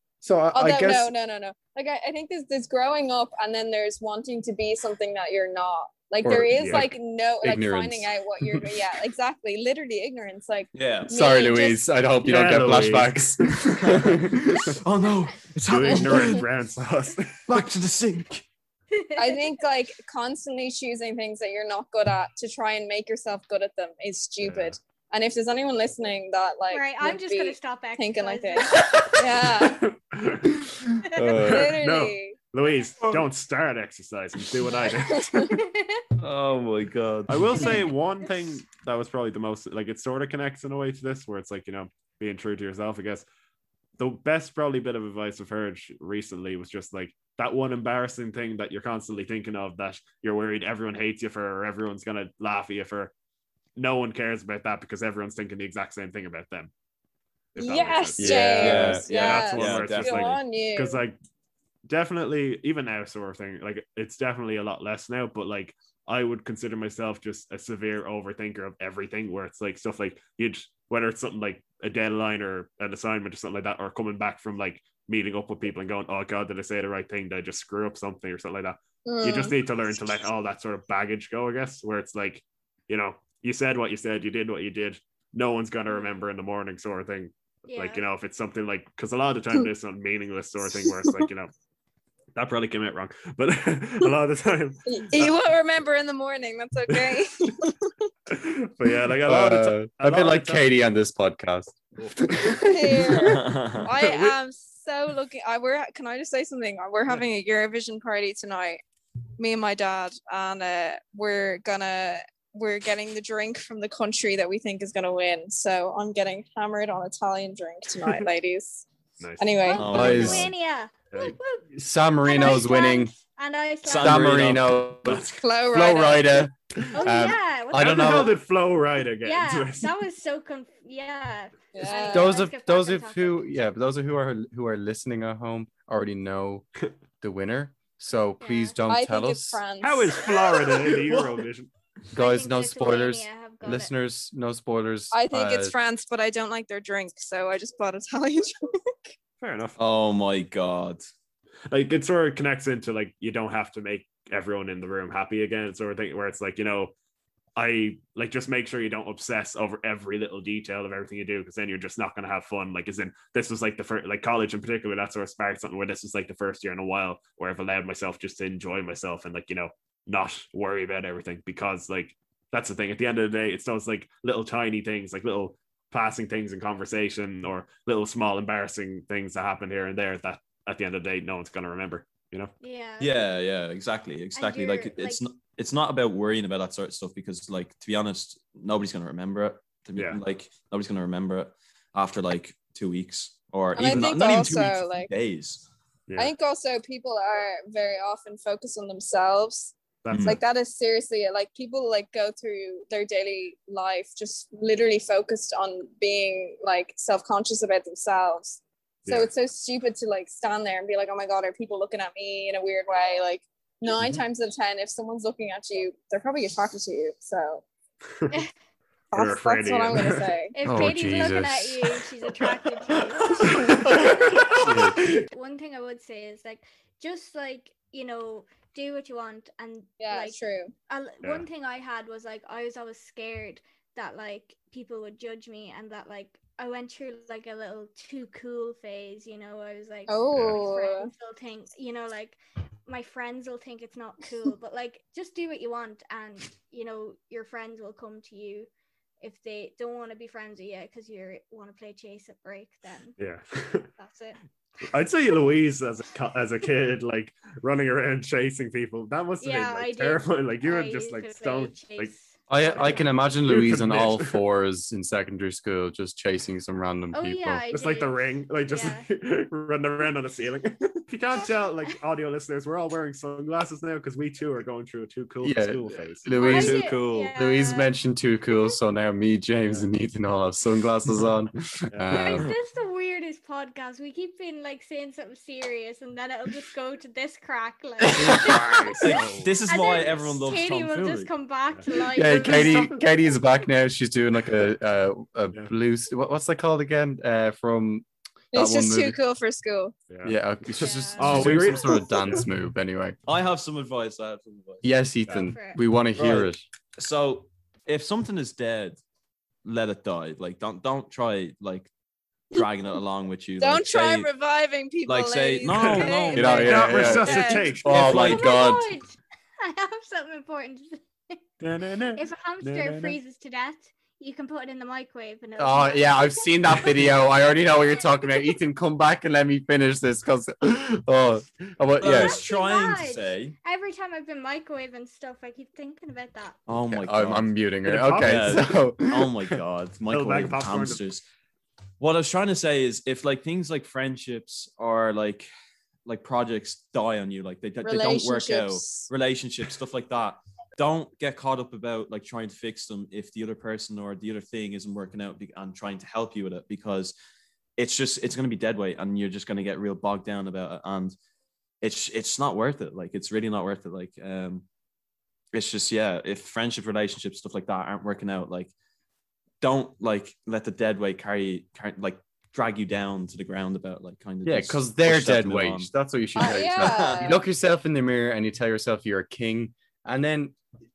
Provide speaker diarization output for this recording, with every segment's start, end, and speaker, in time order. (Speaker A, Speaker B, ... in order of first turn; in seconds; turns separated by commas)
Speaker A: 0.2-1.1, Speaker B: 0.5-11.8, Speaker A: 6.2-8.6, Speaker C: 6.6-6.9, Speaker D: 10.7-11.1, Speaker A: 11.1-14.8, Speaker C: 12.2-13.6, Speaker D: 13.7-16.4, Speaker C: 15.7-17.6, Speaker B: 15.9-16.4, Speaker D: 17.5-18.4, Speaker E: 18.9-19.4, Speaker B: 19.2-29.8, Speaker C: 24.4-24.8, Speaker E: 26.7-29.1, Speaker C: 29.4-30.6, Speaker A: 31.1-31.7, Speaker B: 31.4-32.4, Speaker C: 31.4-35.3, Speaker B: 34.8-35.5, Speaker E: 35.5-36.0, Speaker D: 36.2-37.9, Speaker C: 37.3-43.2, Speaker E: 37.5-37.8, Speaker C: 44.0-53.1, Speaker C: 53.8-56.7, Speaker C: 57.5-61.2, Speaker B: 57.6-61.0, Speaker A: 58.2-59.0, Speaker D: 58.6-60.4, Speaker C: 61.9-91.5, Speaker B: 79.0-79.5, Speaker E: 85.9-86.1, Speaker E: 87.7-88.0, Speaker C: 92.3-95.3, Speaker B: 94.9-98.1, Speaker C: 98.3-100.7, Speaker A: 99.2-101.8, Speaker C: 102.0-102.7, Speaker B: 102.5-108.8, Speaker D: 103.2-103.9, Speaker C: 104.0-104.3, Speaker B: 109.4-118.8, Speaker C: 119.2-119.8, Speaker B: 119.4-120.0, Speaker E: 119.6-121.6, Speaker D: 119.8-120.5, Speaker A: 119.9-120.5, Speaker A: 121.7-123.1, Speaker E: 122.2-124.3, Speaker D: 123.8-125.4, Speaker A: 124.0-128.3, Speaker B: 125.3-126.5, Speaker E: 126.9-128.3, Speaker C: 127.7-129.9, Speaker E: 129.2-133.5, Speaker B: 131.7-132.4, Speaker A: 132.1-136.7, Speaker A: 137.2-139.6, Speaker E: 138.4-138.7, Speaker B: 138.9-140.7, Speaker C: 139.8-141.7, Speaker D: 140.9-141.4, Speaker A: 142.1-145.7, Speaker E: 142.2-143.9, Speaker B: 145.1-149.1, Speaker C: 149.4-149.8, Speaker D: 149.8-151.0, Speaker C: 151.7-156.9, Speaker C: 157.6-182.5, Speaker E: 182.6-183.2, Speaker D: 183.0-195.6, Speaker E: 184.3-185.2, Speaker B: 193.7-195.1, Speaker B: 196.2-217.6, Speaker C: 200.0-200.4, Speaker D: 200.1-200.4, Speaker C: 209.0-209.3, Speaker B: 219.1-220.5, Speaker C: 219.1-220.3, Speaker E: 220.5-230.4, Speaker A: 220.6-221.8, Speaker C: 223.4-224.9, Speaker A: 224.6-225.0, Speaker B: 230.0-230.7, Speaker E: 230.9-248.7, Speaker B: 240.1-241.1, Speaker C: 240.3-240.6, Speaker E: 249.2-253.2, Speaker C: 253.2-253.9, Speaker E: 254.0-254.4, Speaker C: 254.9-262.1, Speaker E: 259.4-263.0, Speaker A: 262.5-267.6, Speaker C: 263.4-264.4, Speaker E: 267.1-269.1, Speaker C: 267.7-276.3, Speaker A: 275.4-282.5, Speaker E: 276.4-277.9, Speaker D: 276.4-277.3, Speaker E: 282.1-292.9, Speaker D: 282.3-282.5, Speaker A: 288.1-289.0, Speaker D: 288.2-291.3, Speaker C: 288.9-289.5, Speaker A: 292.1-299.2, Speaker C: 292.4-293.0, Speaker B: 298.5-299.9, Speaker C: 300.1-300.4, Speaker A: 300.2-303.1, Speaker E: 300.8-301.3, Speaker C: 301.2-302.4, Speaker D: 301.3-301.7, Speaker D: 303.2-304.8, Speaker A: 304.8-306.6, Speaker E: 305.4-305.8, Speaker D: 306.1-309.0, Speaker D: 309.6-311.9, Speaker D: 312.5-314.3, Speaker B: 313.6-317.8, Speaker D: 315.1-317.2, Speaker C: 315.8-316.1, Speaker A: 316.3-318.9, Speaker C: 316.6-318.1, Speaker D: 317.8-318.5, Speaker E: 318.1-321.4, Speaker C: 321.6-323.2, Speaker E: 322.1-326.9, Speaker A: 325.6-332.4, Speaker D: 332.0-333.5, Speaker E: 332.0-336.6, Speaker D: 336.7-337.5, Speaker A: 336.9-339.3, Speaker C: 337.9-338.7, Speaker D: 338.2-341.2, Speaker C: 340.1-341.0, Speaker D: 342.0-345.5, Speaker D: 346.1-357.1, Speaker B: 347.8-349.1, Speaker D: 357.8-361.1, Speaker D: 361.8-364.6, Speaker D: 365.5-368.7, Speaker D: 369.6-375.9, Speaker A: 374.4-380.6, Speaker B: 376.4-377.4, Speaker D: 376.4-377.3